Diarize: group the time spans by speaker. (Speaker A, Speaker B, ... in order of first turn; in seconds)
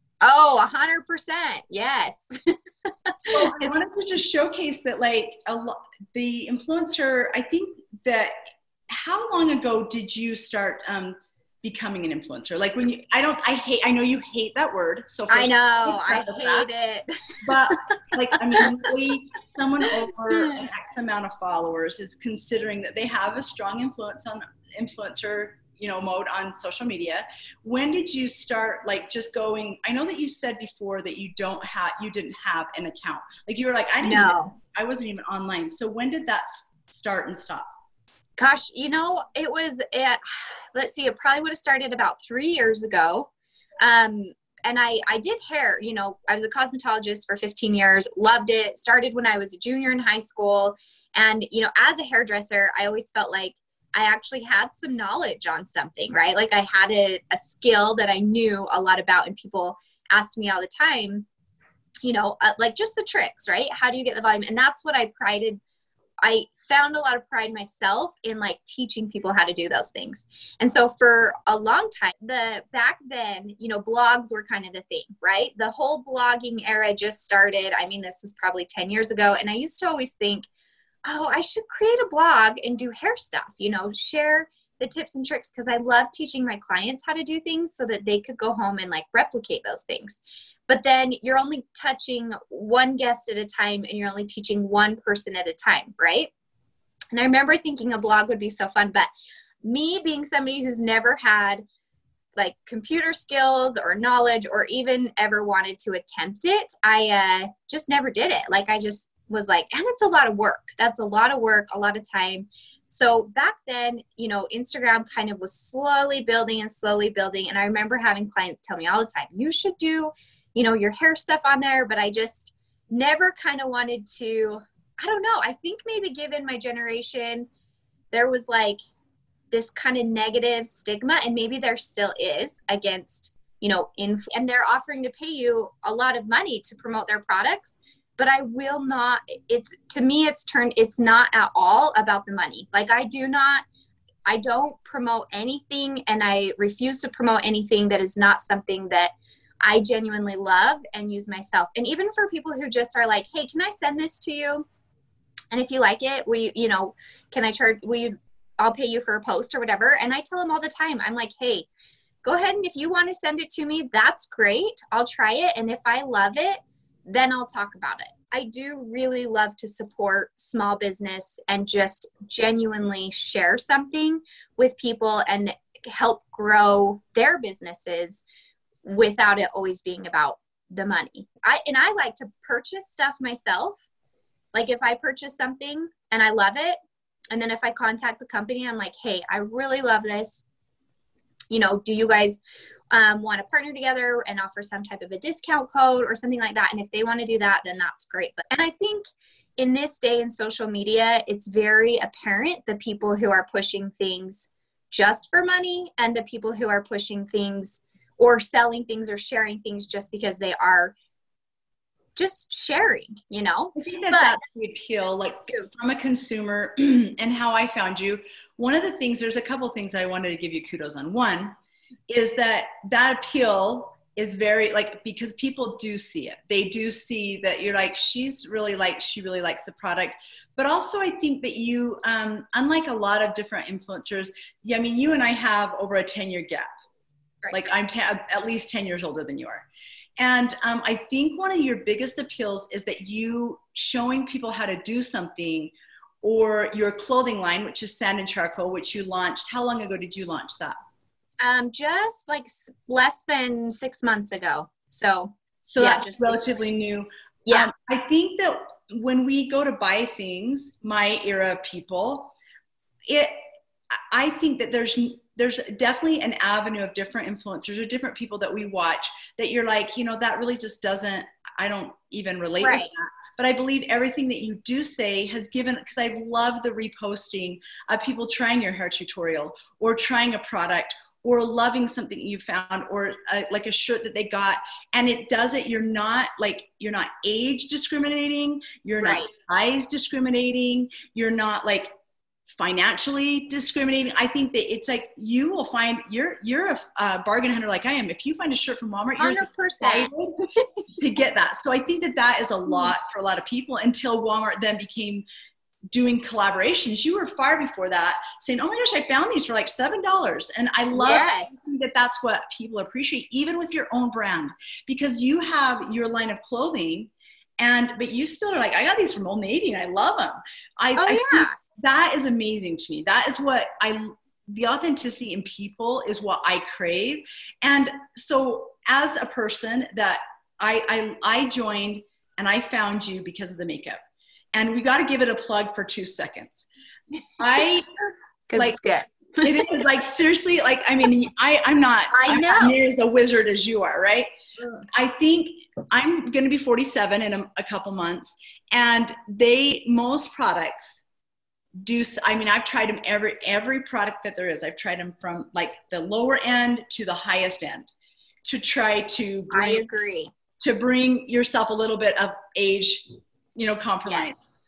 Speaker A: 0.2-3.8, 15.3-17.1, 17.7-18.0, 20.4-20.6, 34.0-34.5, 38.4-43.3, 43.8-61.3, 62.0-65.6, 66.2-80.5, 81.0-96.3, 97.1-99.1, 99.6-101.6, 102.4-127.5, 128.1-128.8, 129.5-143.7, 144.3-154.7, 155.5-161.7, 162.2-178.2, 178.8-183.8, 184.5-186.8, 187.3-190.4, 191.5-192.4, 192.9-199.1, 199.6-210.9, 212.2-214.4, 251.4-256.4, 272.6-272.9, 289.0-289.3, 299.2-300.1, 310.9-311.6, 321.0-321.6, 338.5-339.8, 342.1-342.8, 359.5-360.3, 364.1-364.4
Speaker B: 3.2-8.3, 8.9-16.7, 17.4-37.7, 213.8-221.6, 222.1-236.7, 237.5-239.7, 240.2-250.8, 255.6-262.3, 263.1-263.4, 263.9-291.9, 292.5-300.4, 300.9-305.2, 305.9-334.0, 334.5-336.7, 337.4-338.8, 339.4-344.3, 344.9-351.0, 351.8-357.9, 358.4-359.8, 360.6-364.4